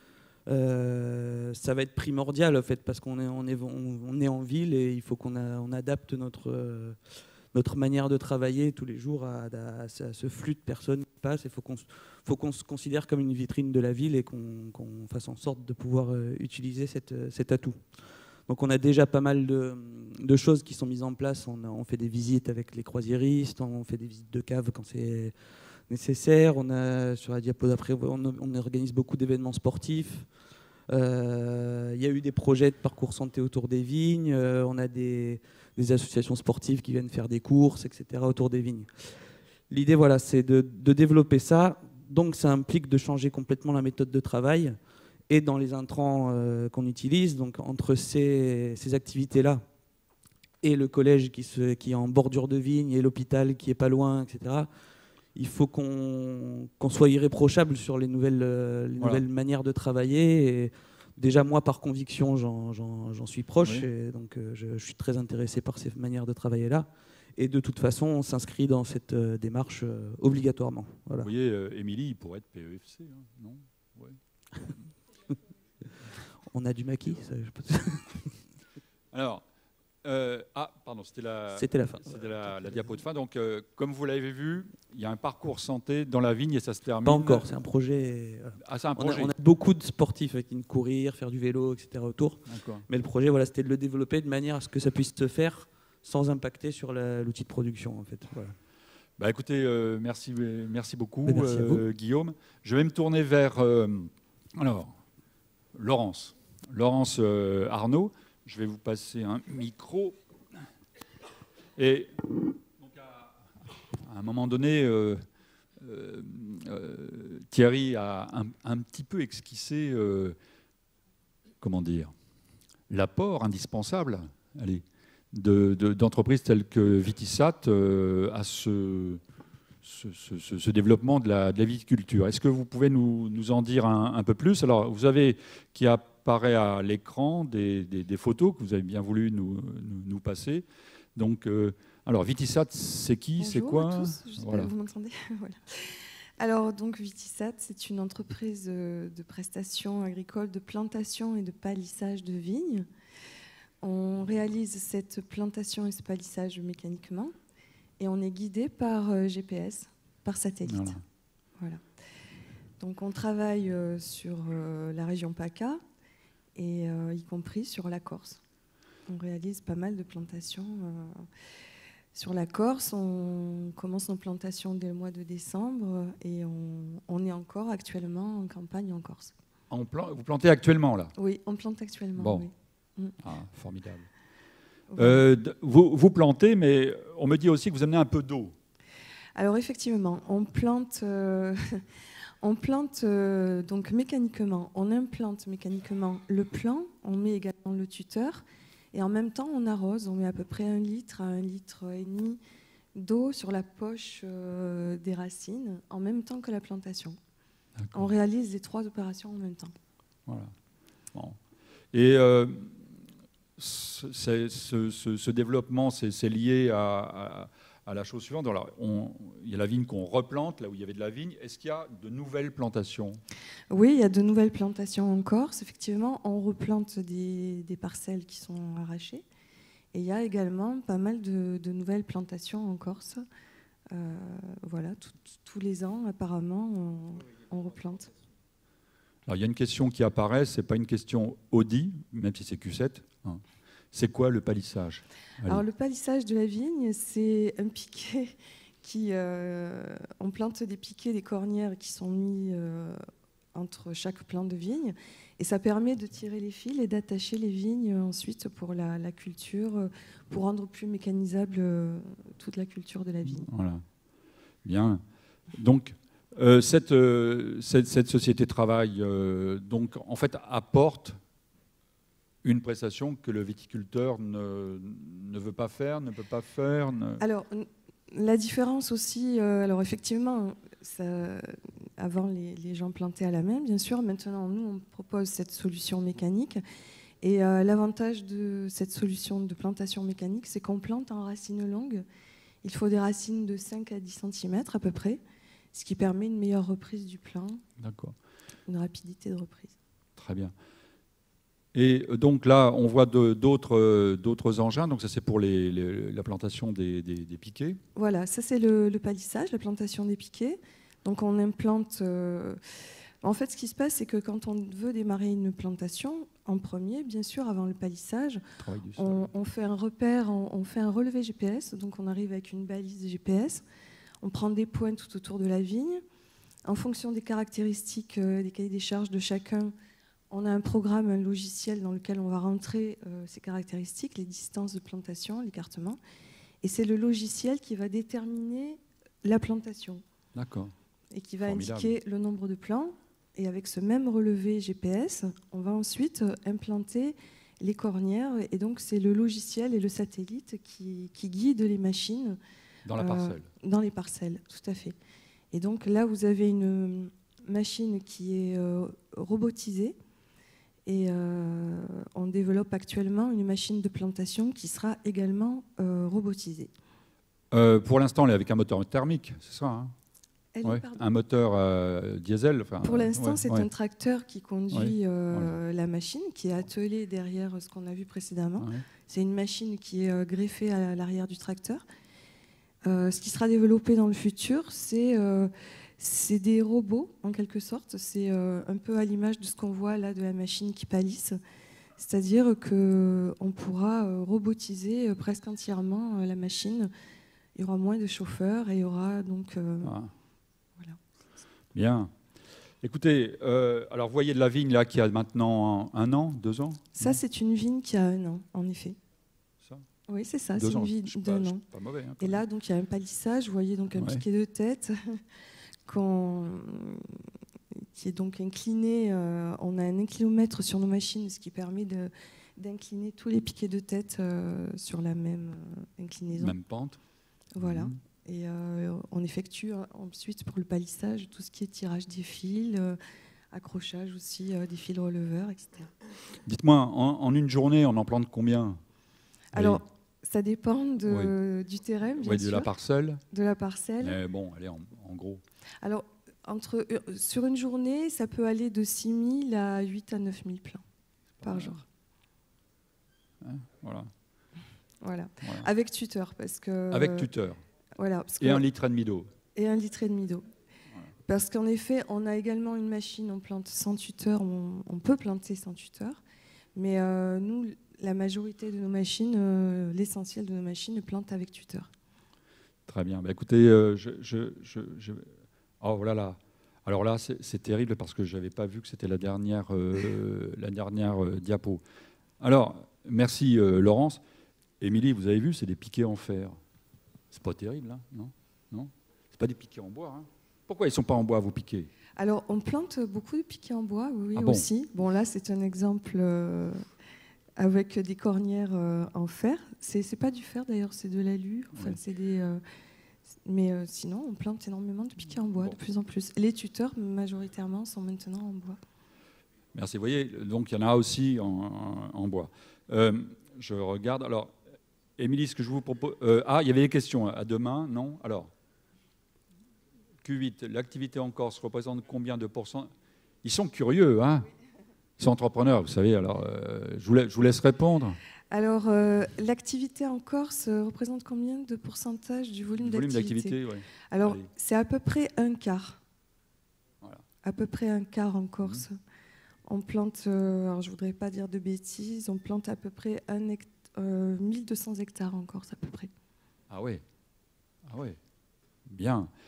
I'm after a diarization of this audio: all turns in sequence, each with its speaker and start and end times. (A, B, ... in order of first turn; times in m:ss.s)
0:00.4-0:44.8 A
0:45.3-0:49.6 A
0:50.6-0:54.7 A
0:55.3-1:11.3 A
0:59.0-0:59.2 B
1:11.2-1:14.8 B
1:16.4-1:18.4 A
1:19.1-1:19.4 B
1:20.0-1:27.4 B
1:21.5-1:22.9 A
1:27.0-1:38.5 A
1:28.6-1:29.3 B
1:32.5-1:32.8 B
1:39.2-1:45.0 B
1:41.2-1:41.8 A
1:45.7-1:50.2 B
1:51.8-1:55.2 B
1:55.8-2:00.4 B
2:01.6-2:02.1 B
2:02.9-2:09.2 B
2:09.8-2:24.7 B
2:23.4-2:32.9 C
2:33.8-2:37.3 C
2:38.0-2:41.0 C
2:40.6-2:41.0 B
2:41.6-2:41.8 C
2:42.8-2:45.8 C
2:46.6-2:48.4 C
2:49.1-2:51.3 C
2:52.1-2:59.3 C
2:59.7-3:01.1 B
3:01.2-3:03.1 C
3:02.2-3:02.5 B
3:03.2-3:04.1 B
3:04.9-3:05.2 C
3:05.0-3:08.5 B
3:09.3-3:11.8 C
3:12.4-3:22.4 C
3:22.9-3:27.2 C
3:27.8-3:28.1 B
3:27.9-3:29.7 C
3:30.3-3:30.5 B
3:31.9-3:32.9 B
3:33.6-3:43.2 B
3:43.7-3:49.2 C
3:49.9-3:53.2 C
3:53.9-3:58.1 C
3:59.3-4:03.4 B
4:03.9-4:05.6 B
4:05.5-4:13.0 C
4:13.5-4:23.5 C
4:23.3-4:23.8 B
4:24.6-4:25.0 B
4:25.5-4:31.2 B
4:32.4-4:37.2 B
4:37.2-4:46.6 C
4:47.2-4:52.0 C
4:52.6-4:55.2 C
4:55.7-4:57.6 C
4:57.8-4:58.1 B
4:58.7-4:59.7 C
5:00.2-5:00.5 B
5:01.7-5:07.8 B
5:07.9-5:12.6 C
5:13.2-5:18.4 C
5:18.6-5:19.3 B
5:19.0-5:23.6 C
5:24.2-5:26.0 C
5:26.6-5:29.7 C
5:30.3-5:36.0 C
5:36.6-5:40.0 C
5:40.3-5:40.7 B
5:41.1-5:52.4 C
5:41.4-5:42.0 B
5:52.8-5:53.5 B
5:53.0-5:55.0 C
5:55.5-6:00.0 C
6:00.8-6:06.7 C
6:07.5-6:09.9 B
6:10.5-6:11.0 C
6:10.6-6:13.7 B
6:12.8-6:21.8 C
6:14.7-6:15.5 B
6:18.6-6:18.8 B
6:22.8-6:31.4 C
6:32.0-6:36.9 C
6:37.5-6:40.0 C
6:39.8-6:40.1 B
6:41.7-6:42.1 B
6:42.8-6:47.2 B
6:47.0-6:49.0 C
6:50.1-6:51.6 C
6:50.6-6:52.4 B
6:52.2-6:55.2 C
6:54.0-6:54.2 B
6:55.9-6:57.2 C
6:57.7-7:06.5 C
7:06.3-7:07.0 B
7:07.5-7:13.0 C
7:07.6-7:08.0 B
7:13.5-7:15.9 C
7:16.4-7:18.8 B
7:19.5-7:19.8 B
7:19.5-7:22.7 C
7:21.0-7:21.3 B
7:22.2-7:23.2 B
7:23.3-7:24.2 C
7:24.0-7:25.4 B
7:25.8-7:30.8 C
7:31.4-7:31.8 B
7:31.4-7:31.8 C
7:33.4-7:34.1 B
7:35.0-7:37.3 C
7:35.4-7:35.7 B
7:36.9-7:37.6 B
7:38.0-7:38.6 C
7:38.4-7:39.3 B
7:39.5-7:40.5 C
7:41.2-7:46.2 C
7:46.7-7:51.9 C
7:52.9-8:01.8 B
8:02.4-8:04.2 B
8:04.8-8:06.6 B
8:07.3-8:11.9 B
8:12.2-8:16.8 C
8:14.3-8:14.6 B
8:17.6-8:22.6 C
8:21.7-8:22.0 B
8:23.4-8:28.8 C
8:29.7-8:34.5 B
8:35.2-8:38.5 B
8:40.2-8:42.9 B
8:43.4-8:44.4 B
8:45.2-8:48.2 B
8:48.5-8:53.6 C
8:52.8-8:54.5 B
8:54.1-8:56.0 C
8:57.4-8:59.0 C
8:59.7-9:06.1 C
9:06.7-9:07.0 B
9:07.9-9:08.2 B
9:08.8-9:09.3 B